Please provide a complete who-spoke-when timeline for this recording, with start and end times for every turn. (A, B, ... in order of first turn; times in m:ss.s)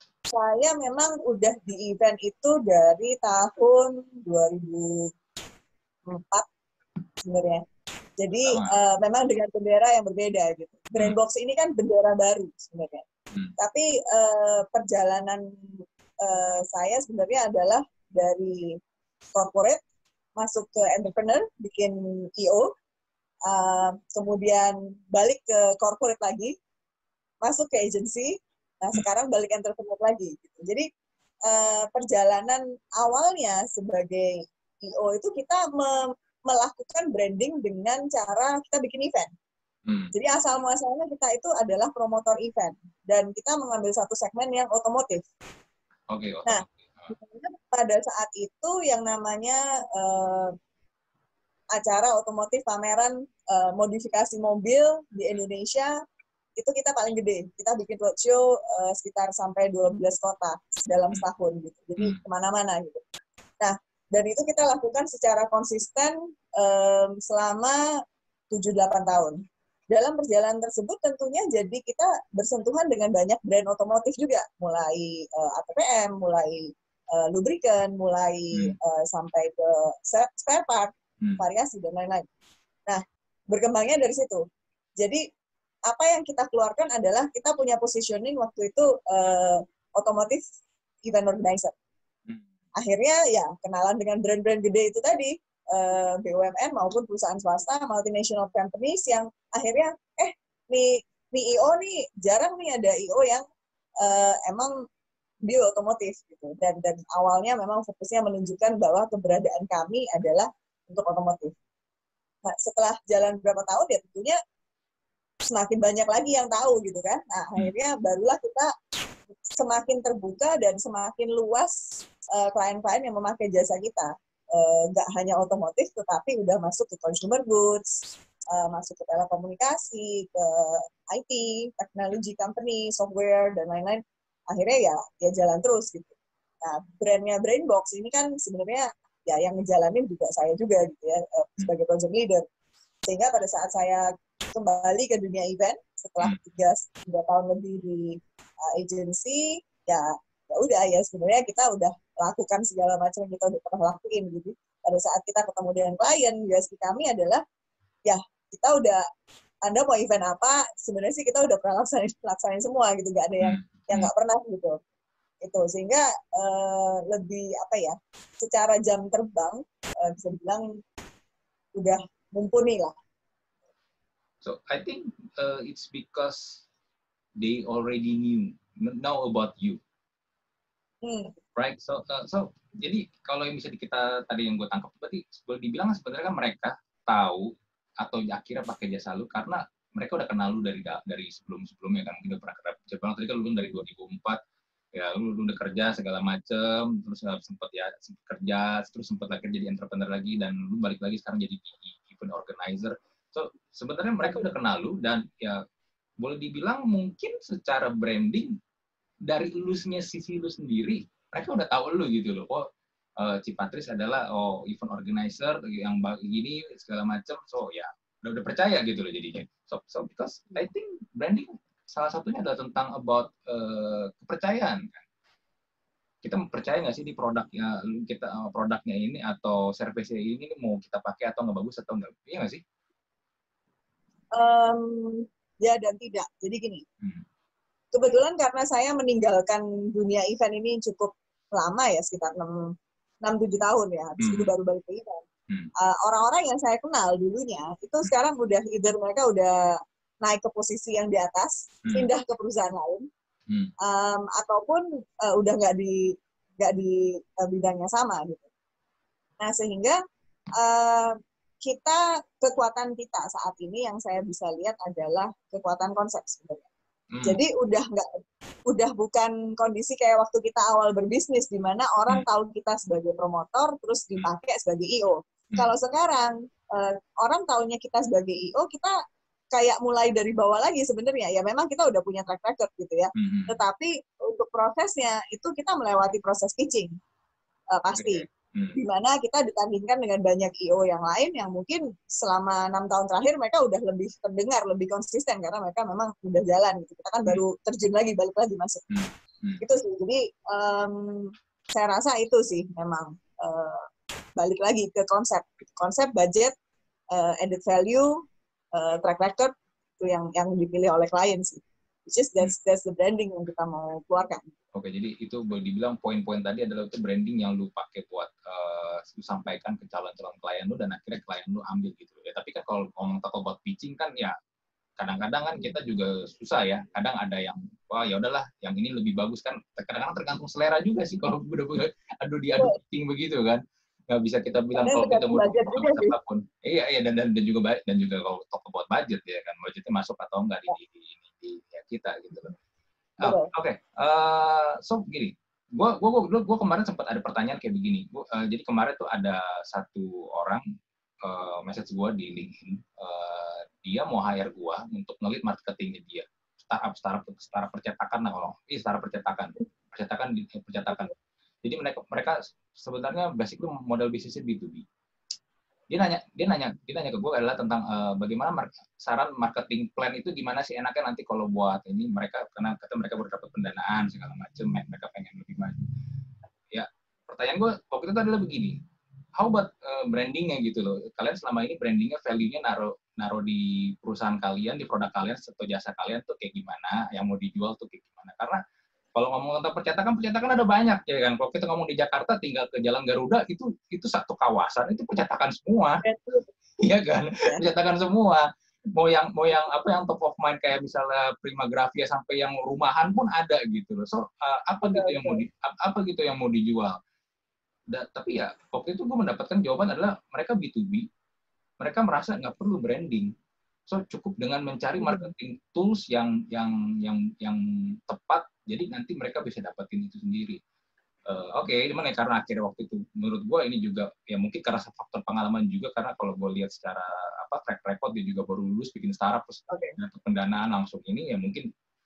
0:00.3-0:05.1 A
0:06.1-0:06.5 A
0:07.2-0:07.6 A
0:08.2-0:13.0 A
0:08.5-0:08.7 B
0:13.6-0:18.8 A
0:19.3-0:19.8 A
0:20.4-0:22.7 A
0:23.5-0:26.5 A
0:27.4-0:30.9 A
0:31.4-0:39.3 A
0:39.9-0:40.1 B
0:40.1-0:45.3 A
0:46.1-0:47.2 B
0:46.5-0:50.6 A
0:51.7-0:55.9 A
0:56.6-1:03.0 A
1:03.6-1:07.8 A
1:08.5-1:22.3 A
1:22.9-1:24.4 A
1:25.9-1:30.5 A
1:31.0-1:31.8 A
1:32.8-1:43.4 A
1:44.0-1:44.7 A
1:45.5-1:51.5 A
1:52.4-1:54.4 A
1:55.5-1:58.7 A
1:59.5-2:22.4 A
2:23.0-2:37.4 A
2:38.1-2:39.0 A
2:39.6-2:44.8 A
2:43.4-2:44.1 B
2:45.4-2:50.7 A
2:51.8-2:52.9 A
2:54.4-2:56.6 B
2:57.4-2:59.8 B
3:01.0-3:01.4 A
3:01.6-3:07.5 B
3:08.0-3:14.4 B
3:15.0-3:25.6 B
3:26.2-3:28.5 B
3:29.3-3:32.6 B
3:33.2-3:45.0 B
3:46.2-3:52.6 B
3:54.3-3:56.8 A
3:57.9-4:02.7 A
4:03.2-4:05.2 A
4:04.2-4:04.5 B
4:05.8-4:09.6 A
4:10.2-4:13.1 A
4:13.8-4:18.5 A
4:19.4-4:20.0 A
4:20.6-4:26.7 A
4:27.1-4:27.4 B
4:27.2-4:28.1 A
4:28.7-4:38.9 A
4:39.5-4:47.0 A
4:43.2-4:43.6 B
4:47.7-4:58.8 A
4:47.9-4:48.8 B
4:58.9-4:59.6 B
4:59.6-5:06.5 A
5:07.1-5:08.2 A
5:08.7-5:14.5 A
5:14.7-5:24.3 B
5:25.0-5:42.5 B
5:34.8-5:36.2 A
5:43.2-5:43.5 A
5:43.2-5:50.6 B
5:51.2-6:04.8 B
6:05.9-6:15.8 B
6:16.7-6:18.8 B
6:19.4-6:28.6 B
6:29.2-6:36.0 B
6:36.0-6:36.5 A
6:36.8-6:47.0 B
6:44.8-6:45.4 A
6:47.9-6:51.1 B
6:51.8-6:53.3 B
6:53.9-7:00.6 B
6:55.0-6:55.3 A
7:01.3-7:11.7 B
7:09.7-7:10.0 A